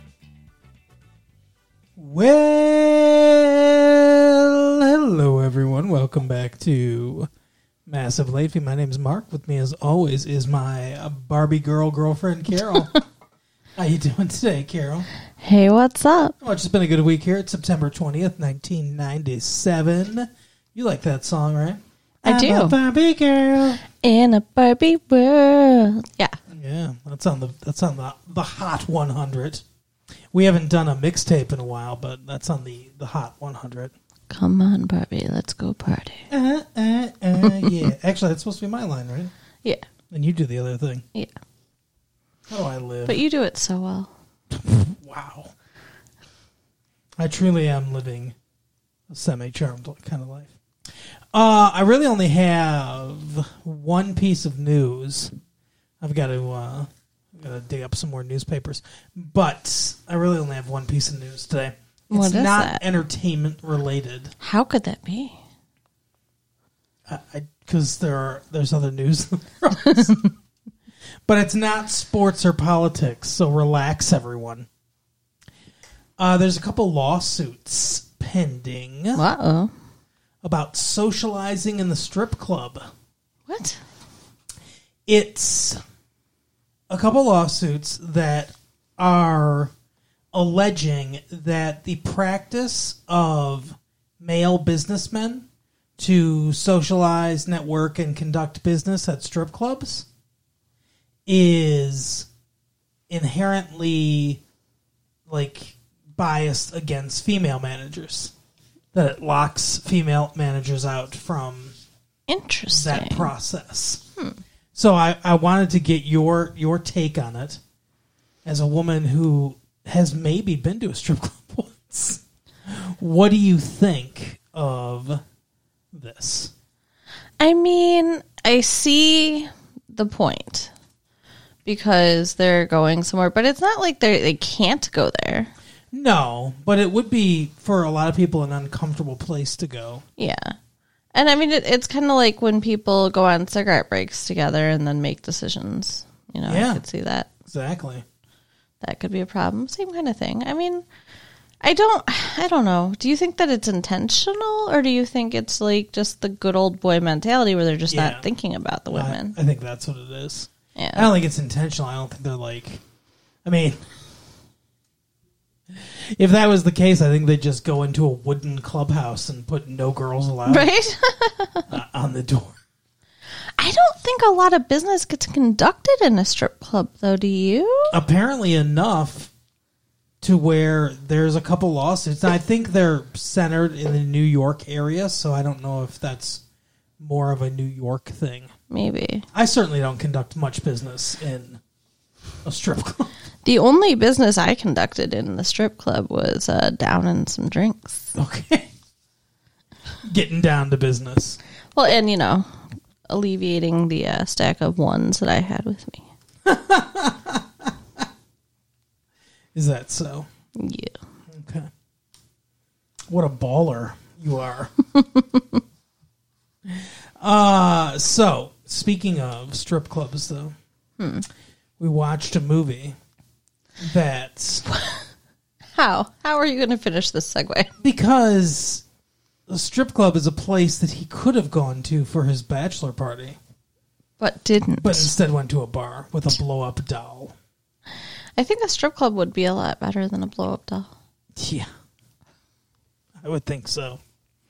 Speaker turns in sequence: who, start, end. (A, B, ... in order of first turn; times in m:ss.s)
0:02.0-0:07.3 A
0:07.9-0:13.0 A
0:12.7-0:13.0 B
0:13.8-0:15.0 A
0:15.4-0:16.3 B
0:16.4-0:23.8 A
0:22.2-0:22.8 B
0:23.9-0:26.4 B
0:26.5-0:29.6 A
0:30.3-0:33.9 A
0:34.3-0:36.3 B
0:36.3-0:39.3 A
0:37.4-0:37.8 B
0:40.1-0:41.0 A
0:42.5-0:43.2 A
0:43.0-0:44.1 B
0:44.5-0:45.5 A
0:47.2-0:48.3 A
0:49.1-0:50.5 A
0:51.3-0:55.3 A
0:56.0-1:04.3 A
1:02.1-1:02.8 B
1:04.4-1:05.4 B
1:07.1-1:10.2 A
1:09.8-1:10.2 B
1:11.3-1:14.7 A
1:16.2-1:19.2 A
1:19.1-1:19.7 B
1:20.4-1:22.8 A
1:23.5-1:23.8 B
1:25.1-1:25.8 A
1:26.9-1:29.7 A
1:30.3-1:35.4 A
1:36.0-1:40.1 A
1:41.3-1:42.3 A
1:43.1-1:44.4 A
1:45.3-1:48.3 A
1:48.9-1:51.7 A
1:52.3-1:53.3 B
1:52.7-1:54.0 A
1:54.7-1:57.6 A
1:58.4-2:05.2 A
2:05.9-2:06.5 A
2:07.4-2:10.7 B
2:11.6-2:15.5 B
2:15.9-2:20.0 A
2:20.2-2:20.6 B
2:21.1-2:27.3 B
2:26.5-2:26.8 A
2:27.4-2:28.0 A
2:28.8-2:30.8 B
2:31.6-2:39.4 B
2:37.9-2:38.2 A
2:38.9-2:42.8 A
2:40.8-2:41.1 B
2:43.4-2:43.8 A
2:45.7-2:50.7 A
2:50.5-2:51.6 B
2:51.7-2:52.6 A
2:53.6-2:57.9 B
2:57.9-2:59.3 A
3:00.2-3:06.4 A
3:07.0-3:08.5 A
3:08.7-3:09.2 B
3:09.3-3:11.6 A
3:12.4-3:13.1 A
3:13.4-3:18.1 B
3:18.1-3:18.7 A
3:20.0-3:21.4 A
3:21.7-3:22.5 B
3:23.1-3:26.0 B
3:26.4-3:27.7 A
3:29.5-3:30.3 A
3:30.6-3:31.0 B
3:31.3-3:31.7 A
3:33.1-3:34.7 A
3:34.9-3:35.6 B
3:36.7-3:40.5 A
3:41.0-3:41.3 B
3:41.8-3:42.9 A
3:43.8-3:44.6 A
3:44.7-3:45.1 B
3:45.7-3:47.7 B
3:47.8-3:48.8 A
3:49.5-3:53.4 A
3:54.2-3:55.1 B
3:54.8-3:57.3 A
3:58.4-4:00.9 B
4:01.4-4:01.7 A
4:03.2-4:04.0 A